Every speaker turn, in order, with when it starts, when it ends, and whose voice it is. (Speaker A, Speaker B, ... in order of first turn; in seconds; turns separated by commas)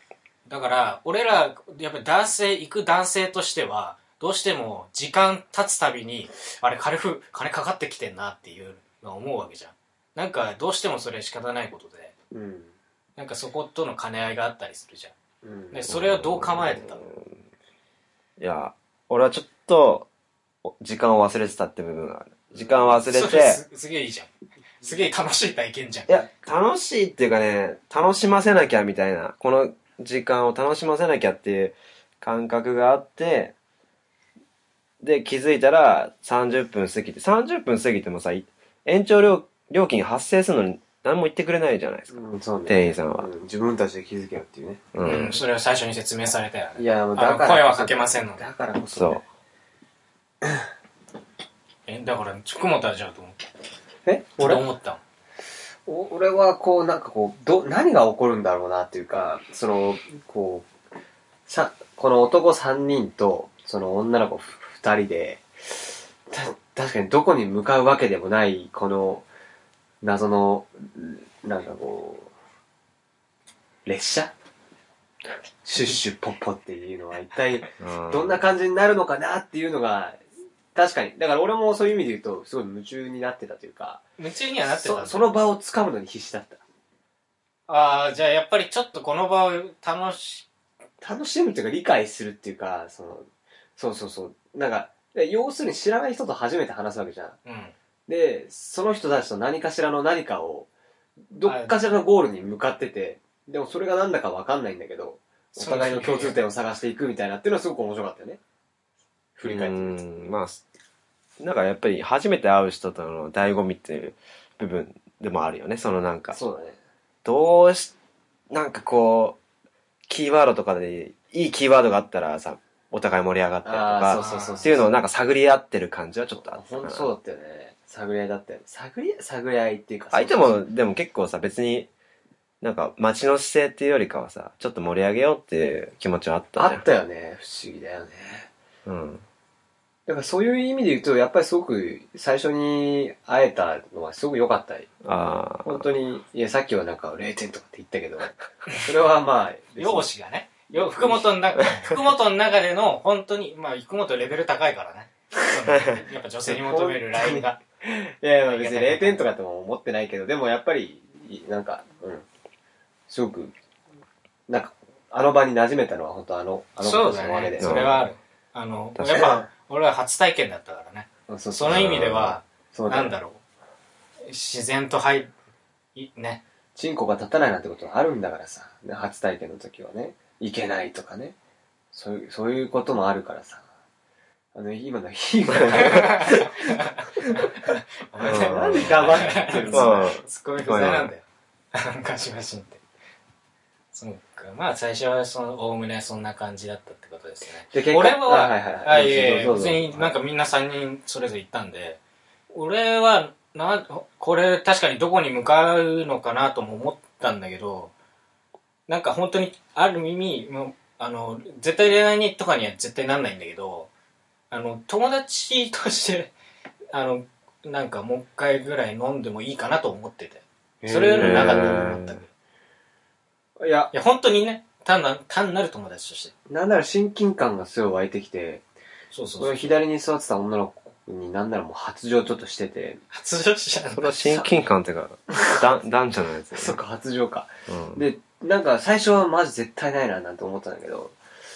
Speaker A: 0.5-12.1, Speaker B: 12.3-12.7, Speaker A: 13.2-15.1, Speaker B: 15.4-15.8, Speaker A: 15.7-17.1, Speaker C: 15.9-17.4, Speaker C: 18.4-20.1, Speaker C: 20.6-23.6, Speaker A: 23.1-26.3, Speaker C: 26.1-33.5, Speaker C: 35.0-43.3, Speaker B: 42.1-44.9, Speaker C: 44.9-45.4, Speaker A: 45.0-48.4, Speaker B: 46.8-49.2, Speaker C: 48.9-49.2, Speaker A: 51.9-53.4, Speaker B: 54.0-54.6, Speaker A: 54.4-55.0, Speaker B: 55.9-60.6, Speaker B: 61.5-69.2, Speaker B: 70.0-72.3, Speaker B: 73.8-74.3, Speaker B: 75.6-80.2, Speaker C: 77.8-78.4, Speaker B: 80.7-84.0, Speaker A: 84.2-85.3, Speaker B: 84.6-86.6, Speaker A: 87.7-90.5, Speaker B: 91.0-93.2, Speaker B: 93.8-97.4, Speaker A: 97.4-97.7, Speaker B: 98.1-100.7, Speaker B: 101.3-108.4, Speaker A: 101.5-101.8, Speaker A: 105.5-106.4, Speaker B: 109.4-110.0, Speaker C: 109.4-110.7, Speaker C: 111.4-116.4, Speaker B: 116.3-116.8, Speaker C: 117.2-117.9, Speaker C: 118.5-119.4, Speaker C: 120.1-127.1, Speaker B: 123.6-125.0, Speaker A: 124.1-124.8, Speaker B: 126.3-130.6, Speaker C: 130.1-131.9, Speaker C: 132.6-136.8, Speaker B: 136.6-138.5, Speaker C: 138.8-139.2, Speaker B: 140.1-144.9, Speaker C: 145.0-145.9, Speaker B: 145.6-150.1, Speaker A: 149.8-157.6, Speaker B: 150.7-151.4, Speaker B: 156.5-162.2, Speaker A: 158.4-159.2, Speaker B: 163.1-163.5, Speaker B: 164.5-167.9, Speaker A: 166.8-173.4, Speaker C: 167.6-168.0, Speaker C: 168.9-169.3, Speaker B: 171.3-173.1, Speaker C: 171.6-172.3, Speaker A: 174.3-175.3, Speaker A: 175.9-176.4, Speaker B: 176.7-181.3, Speaker B: 181.9-183.6, Speaker B: 184.5-186.6, Speaker A: 185.8-192.8, Speaker C: 188.2-191.1, Speaker B: 188.2-190.1, Speaker A: 193.9-202.0, Speaker B: 197.7-200.1, Speaker A: 202.5-207.9, Speaker A: 208.9-213.9, Speaker A: 214.5-216.3, Speaker A: 216.9-222.2, Speaker B: 220.8-222.0, Speaker C: 221.2-222.2, Speaker B: 223.6-223.9, Speaker A: 223.9-226.3, Speaker B: 226.5-228.6, Speaker A: 229.1-229.8, Speaker B: 229.4-233.0, Speaker A: 233.1-234.2, Speaker C: 233.9-236.8, Speaker B: 234.2-234.5, Speaker B: 235.3-235.7, Speaker B: 236.5-241.2, Speaker C: 237.7-238.0